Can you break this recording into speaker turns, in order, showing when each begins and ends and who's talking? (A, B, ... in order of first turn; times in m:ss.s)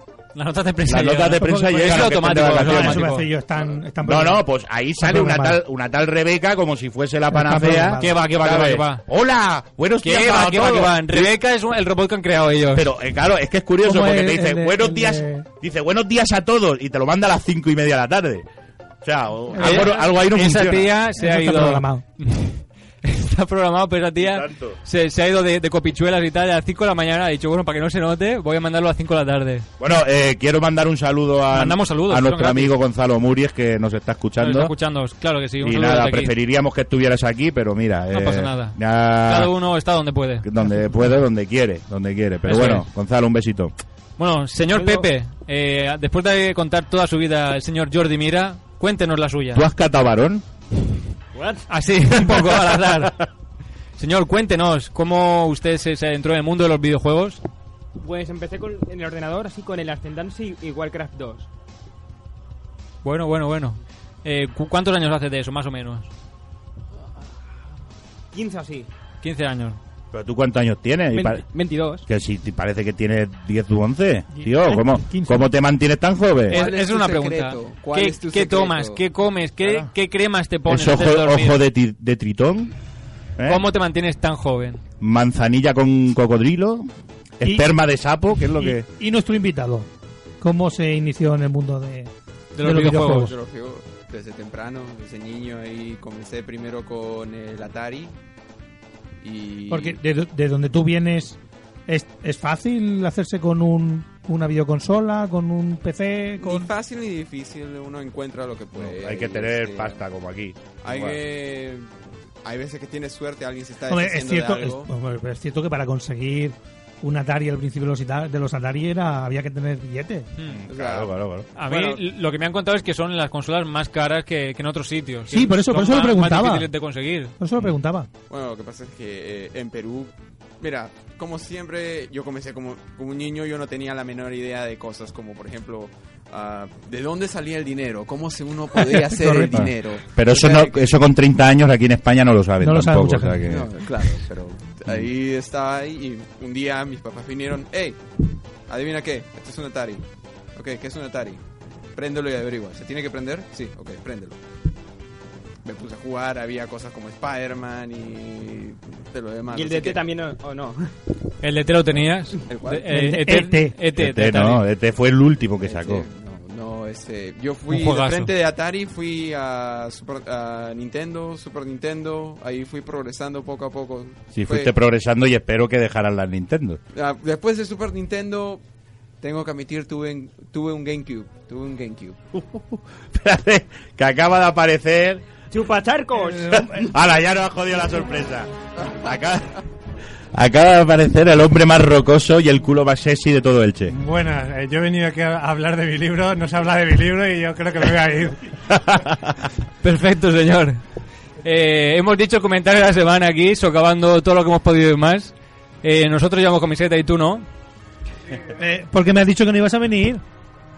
0:00.4-0:03.3 A
0:00.9-0:03.1 B
0:02.6-0:04.4 C
0:04.0-0:11.3 B
0:05.0-0:05.6 C
0:07.3-0:08.1 C
0:08.0-0:09.0 A
0:10.0-0:12.9 A
0:12.7-0:18.4 B
0:13.8-0:15.4 C
0:19.0-0:20.9 B
0:19.6-0:19.9 C
0:19.6-0:29.7 A
0:21.2-0:22.0 C
0:24.2-0:24.8 B
0:29.8-0:34.8 B
0:31.5-0:32.8 A
0:34.4-0:36.3 A
0:35.6-0:39.5 B
0:38.1-0:40.5 A
0:40.4-0:43.7 B
0:42.5-0:42.9 A
0:44.2-0:49.6 A
0:44.7-0:45.1 D
0:49.5-0:50.4 B
0:51.4-0:51.6 D
0:51.7-0:53.2 A
0:52.5-0:53.1 B
0:54.0-0:57.4 A
0:58.0-1:01.5 D
1:03.0-1:06.1 A
1:08.3-1:08.9 D
1:09.2-1:09.8 A
1:10.1-1:11.5 B
1:11.1-1:12.0 D
1:12.0-1:16.6 B
1:14.3-1:15.5 C
1:16.5-1:21.6 A
1:16.5-1:19.0 E
1:20.7-1:22.7 B
1:23.4-1:23.6 B
1:23.5-1:24.8 A
1:25.0-1:26.9 B
1:27.4-1:28.8 B
1:28.5-1:29.9 C
1:30.4-1:32.1 C
1:32.6-1:33.4 A
1:32.6-1:33.3 C
1:33.2-1:38.1 E
1:39.2-1:40.0 E
1:39.7-1:41.4 C
1:41.9-1:46.7 C
1:46.4-1:50.0 E
1:48.8-1:51.2 B
1:50.8-1:54.9 E
1:53.9-2:00.3 C
2:00.5-2:01.5 B
2:00.7-2:02.0 E
2:01.6-2:07.3 A
2:05.3-2:06.7 C
2:07.4-2:08.1 C
2:08.3-2:20.9 E
2:18.9-2:19.7 C
2:19.5-2:23.7 B
2:22.6-2:23.4 C
2:23.5-2:28.0 E
2:28.7-2:30.0 E
2:30.6-2:31.4 E
2:32.0-2:34.4 E
2:35.6-2:40.0 E
2:39.5-2:40.9 D
2:41.4-2:44.6 A
2:42.5-2:43.0 E
2:42.9-2:43.7 C
2:44.0-2:46.1 B
2:45.6-2:54.7 E
2:47.7-2:48.3 A
2:54.4-2:56.8 B
2:56.9-2:58.6 E
2:59.2-3:02.2 E
3:02.3-3:05.2 B
3:05.5-3:06.8 D
3:06.5-3:09.6 B
3:10.3-3:14.0 B
3:13.9-3:18.4 F
3:18.7-3:19.4 B
3:19.8-3:20.8 A
3:21.4-3:27.5 A
3:28.6-3:30.2 C